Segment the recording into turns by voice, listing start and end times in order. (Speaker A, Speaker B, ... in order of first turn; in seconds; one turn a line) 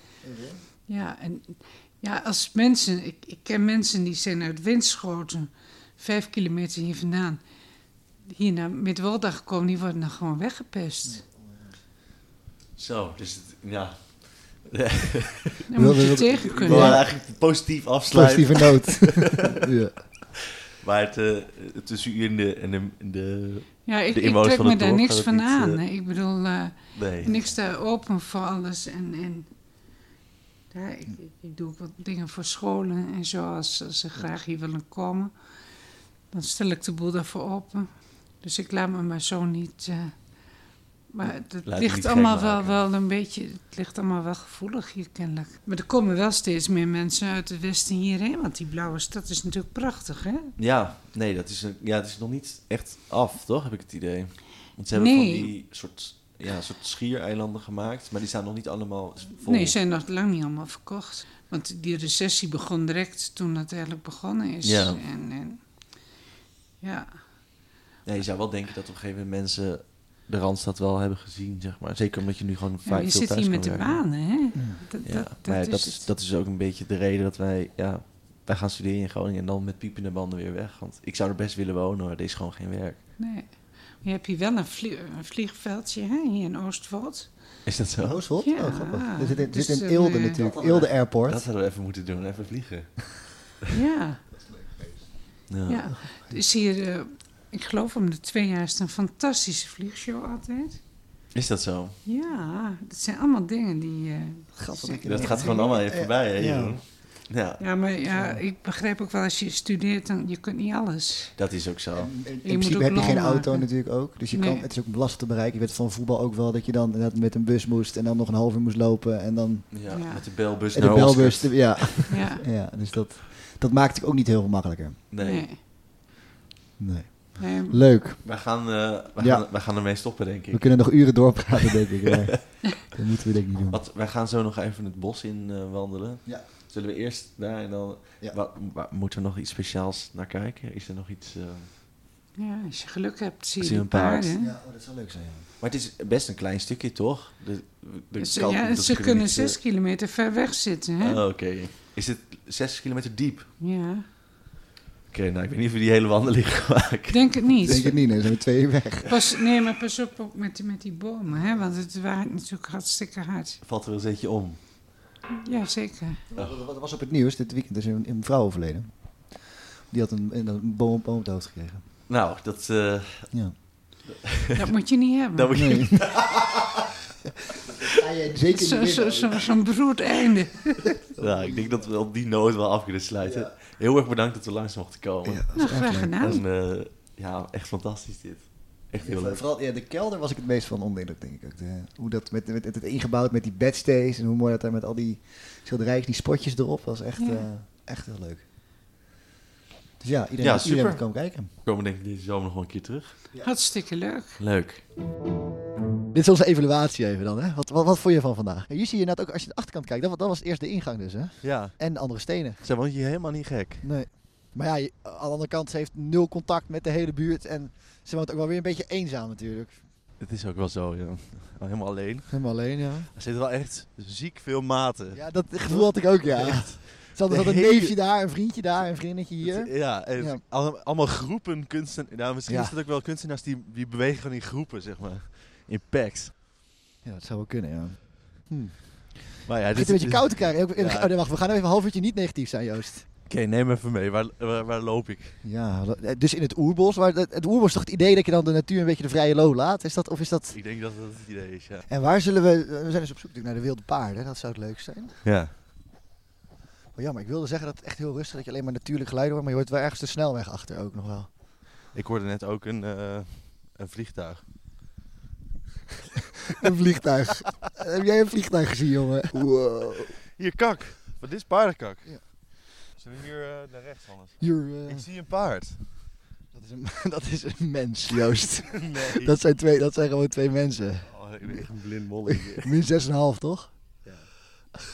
Speaker A: 0.2-0.6
Speaker B: 0.9-7.4
Speaker B: 8.3-11.2
Speaker A: 11.0-11.8
Speaker C: 12.8-19.6
Speaker B: 15.7-17.1
Speaker A: 15.8-17.2
Speaker A: 18.1-19.9
Speaker C: 20.8-25.8
Speaker B: 23.9-29.5
Speaker C: 26.9-27.3
Speaker B: 30.7-35.3
Speaker B: 36.3-37.9
Speaker B: 38.4-40.1
Speaker B: 41.1-50.5
Speaker C: 41.6-42.8
Speaker C: 50.6-59.8
Speaker B: 54.9-55.5
Speaker B: 59.4-65.6
Speaker C: 64.6-65.0
Speaker B: 66.8-67.2
Speaker C: 68.0-74.0
Speaker B: 72.8-76.1
Speaker A: 74.6-74.8
Speaker C: 75.0-83.0
Speaker B: 83.2-87.3
Speaker C: 87.7-88.3
Speaker A: 88.0-91.5
Speaker B: 88.4-90.5
Speaker C: 90.5-93.5
Speaker B: 93.7-94.2
Speaker A: 94.4-95.1
Speaker C: 95.5-95.9
Speaker B: 95.7-100.8
Speaker C: 101.3-102.0
Speaker B: 102.0-105.8
Speaker A: 104.6-106.8
Speaker C: 105.0-107.6
Speaker B: 107.6-111.3
Speaker A: 108.1-108.4
Speaker C: 111.4-112.1
Speaker A: 112.0-119.9
Speaker B: 112.4-114.7
Speaker C: 119.7-122.1
Speaker B: 119.9-120.3
Speaker A: 120.7-125.0
Speaker B: 122.1-122.4
Speaker C: 125.1-125.5
Speaker B: 125.2-125.6
Speaker A: 126.8-128.4
Speaker B: 127.4-127.8
Speaker C: 128.2-131.4
Speaker A: 129.2-129.5
Speaker A: 130.5-133.8
Speaker C: 133.7-141.7
Speaker B: 142.4-144.5
Speaker C: 143.6-144.3
Speaker A: 144.4-145.5
Speaker C: 145.6-149.6
Speaker B: 148.2-151.2
Speaker C: 151.0-153.5
Speaker B: 153.6-154.1
Speaker C: 155.1-158.1
Speaker B: 157.1-157.9
Speaker A: 157.6-159.1
Speaker B: 159.1-163.6
Speaker C: 163.6-165.1
Speaker B: 165.3-166.3
Speaker A: 166.3-171.8
Speaker C: 166.3-166.6
Speaker C: 172.1-173.4
Speaker A: 173.3-173.6
Speaker C: 174.1-174.7
Speaker B: 174.6-175.9
Speaker C: 175.3-176.7
Speaker A: 175.5-176.3
Speaker A: 177.8-179.4
Speaker B: 178.5-181.0
Speaker A: 181.1-181.9
Speaker C: 181.2-189.4
Speaker A: 183.2-183.5
Speaker A: 185.2-186.2
Speaker B: 185.5-186.4
Speaker A: 189.0-198.4
Speaker B: 197.2-197.5
Speaker A: 200.0-201.5
Speaker C: 200.4-203.3
Speaker B: 203.4-204.4
Speaker C: 204.4-204.8
Speaker A: 206.1-212.6
Speaker C: 211.4-213.9
Speaker A: 213.8-219.9
Speaker C: 220.2-236.3
Speaker A: 222.3-223.1
Speaker A: 225.1-230.4
Speaker A: 232.5-232.7
Speaker A: 237.0-243.1
Speaker C: 239.4-241.1
Speaker C: 243.3-245.4
Speaker A: 245.4-250.6
Speaker C: 250.5-251.8
Speaker A: 251.9-255.2
Speaker C: 255.2-255.5
Speaker A: 256.9-261.3
Speaker C: 261.9-264.4
Speaker A: 266.6-270.2
Speaker C: 270.3-272.4
Speaker C: 272.9-276.1
Speaker A: 274.4-275.1
Speaker A: 276.5-281.7
Speaker C: 278.7-279.3
Speaker C: 281.1-282.8
Speaker A: 282.3-283.7
Speaker C: 284.1-284.3